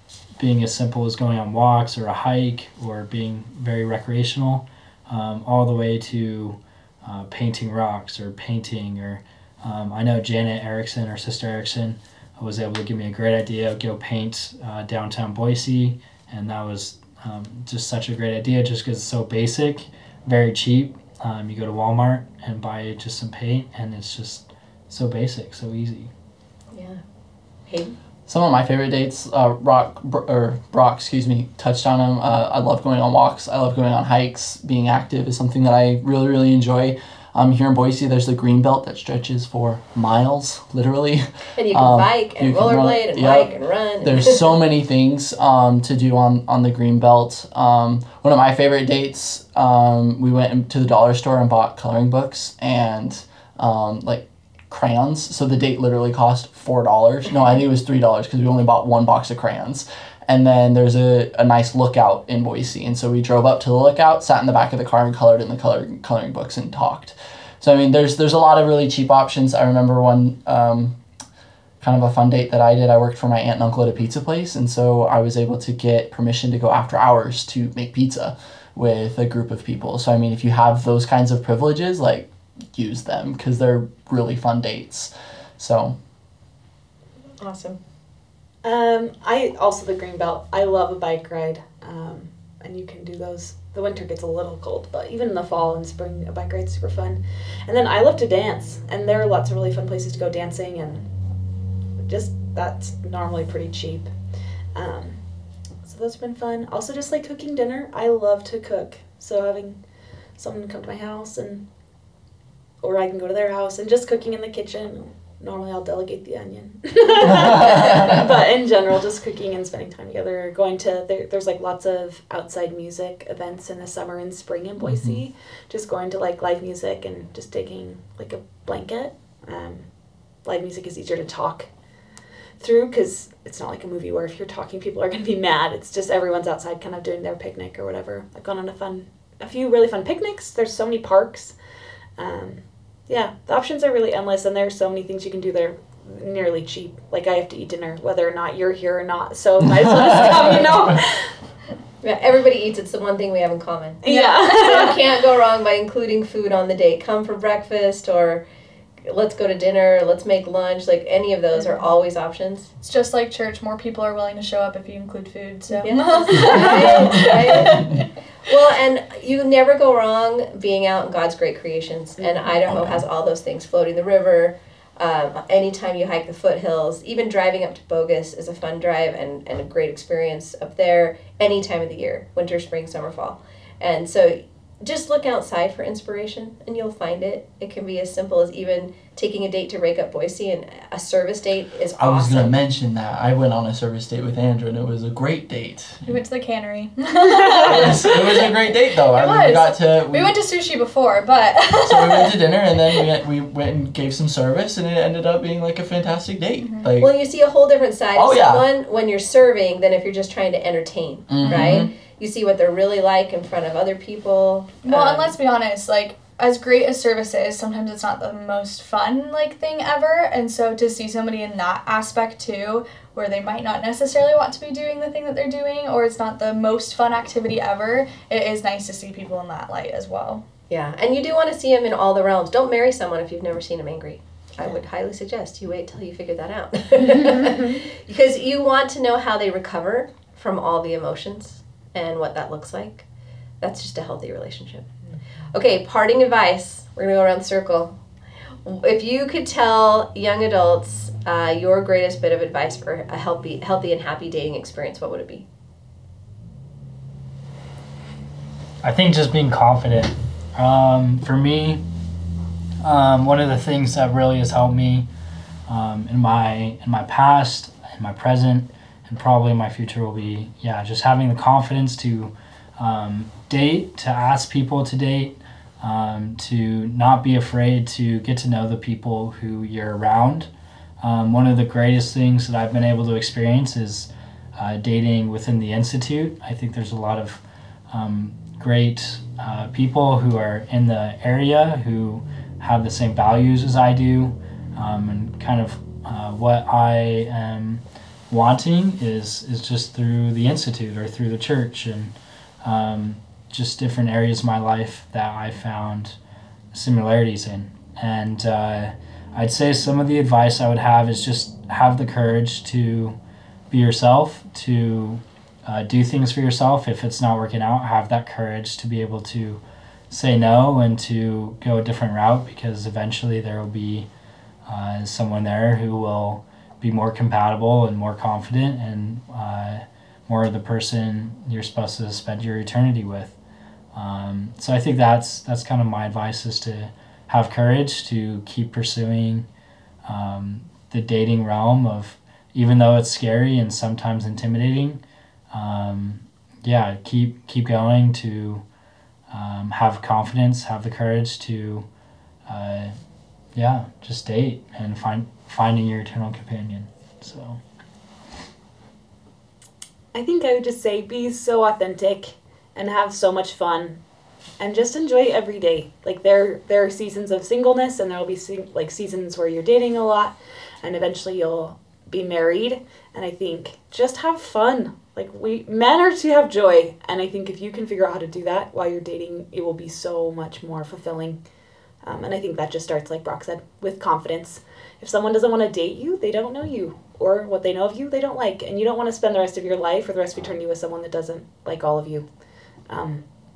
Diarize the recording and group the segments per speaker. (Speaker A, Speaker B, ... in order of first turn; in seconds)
Speaker A: 0.4-26.1, 258.8-261.8, 262.8-265.1, 265.7-280.5, 281.0-306.2, 306.7-313.2, 313.7-324.1, 324.7-333.4, 333.9-339.5, 340.1-348.6, 349.3-351.9, 352.5-353.0, 353.6-357.6
Speaker B: 26.7-27.0, 27.7-28.0, 41.6-44.5, 87.4-87.8, 152.0-158.4, 159.1-162.7, 165.8-192.6, 207.0-215.3, 230.7-243.1, 243.6-244.9, 245.5-248.0, 248.6-255.5
Speaker C: 28.3-71.0, 71.8-86.0, 124.8-125.2, 192.0-196.1, 197.7-200.3, 201.8-207.1, 208.2-208.7, 211.3-211.9
Speaker D: 88.6-101.1, 102.0-104.1, 104.7-109.8, 110.4-111.7, 112.8-131.7, 132.6-141.6, 142.2-151.3, 154.0-155.0, 172.2-172.5, 237.1-237.8, 360.1-364.0, 364.6-381.4, 382.0-392.3, 392.9-393.2
Speaker E: 154.1-154.7, 162.8-168.1, 196.1-202.3, 206.6-206.9, 211.4-211.9, 214.8-230.4